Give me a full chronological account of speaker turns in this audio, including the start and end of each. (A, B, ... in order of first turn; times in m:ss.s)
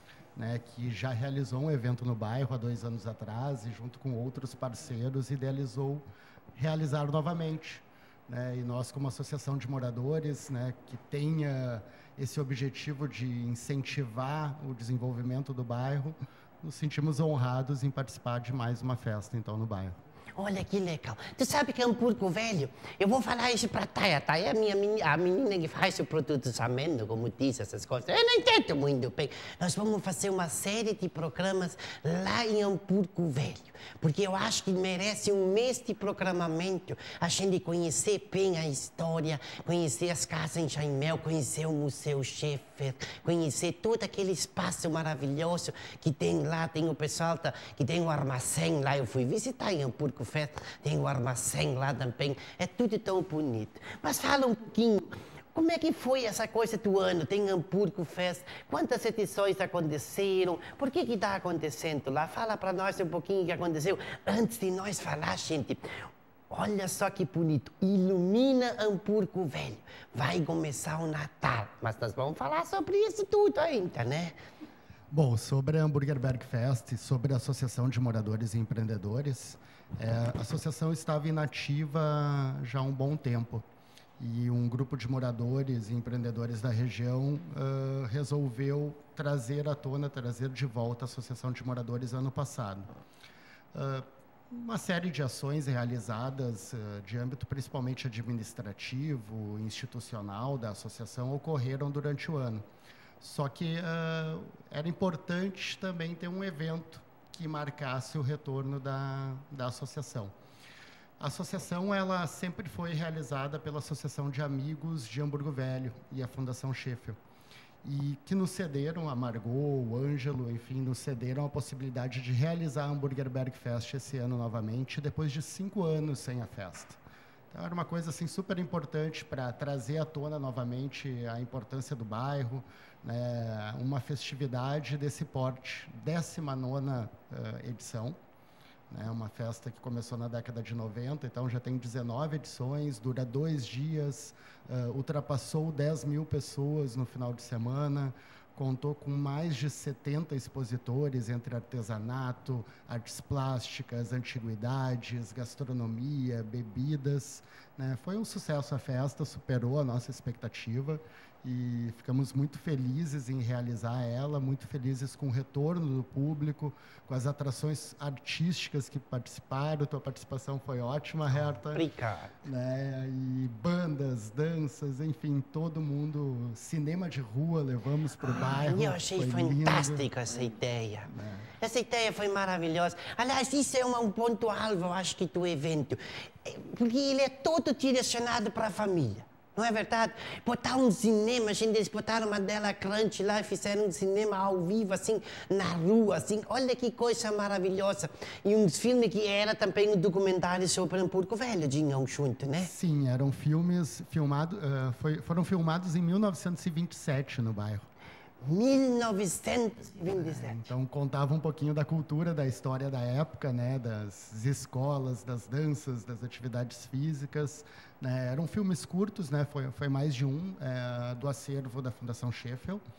0:00.4-0:19.9 A
0:20.4-1:05.8 B
1:06.5-1:14.4 B
1:15.1-1:23.6 A
1:24.2-1:32.9 A
1:33.7-1:42.6 A
1:43.2-1:50.3 A
1:51.2-1:57.2 A
1:57.8-2:07.0 A
2:07.5-2:18.2 A
2:18.9-2:51.8 A
2:51.3-2:52.3 B
2:52.4-3:00.1 A
2:58.2-3:22.7 B
3:01.1-3:01.5 A
3:22.6-3:27.8 A
3:28.4-3:30.7 B
3:30.0-3:42.8 A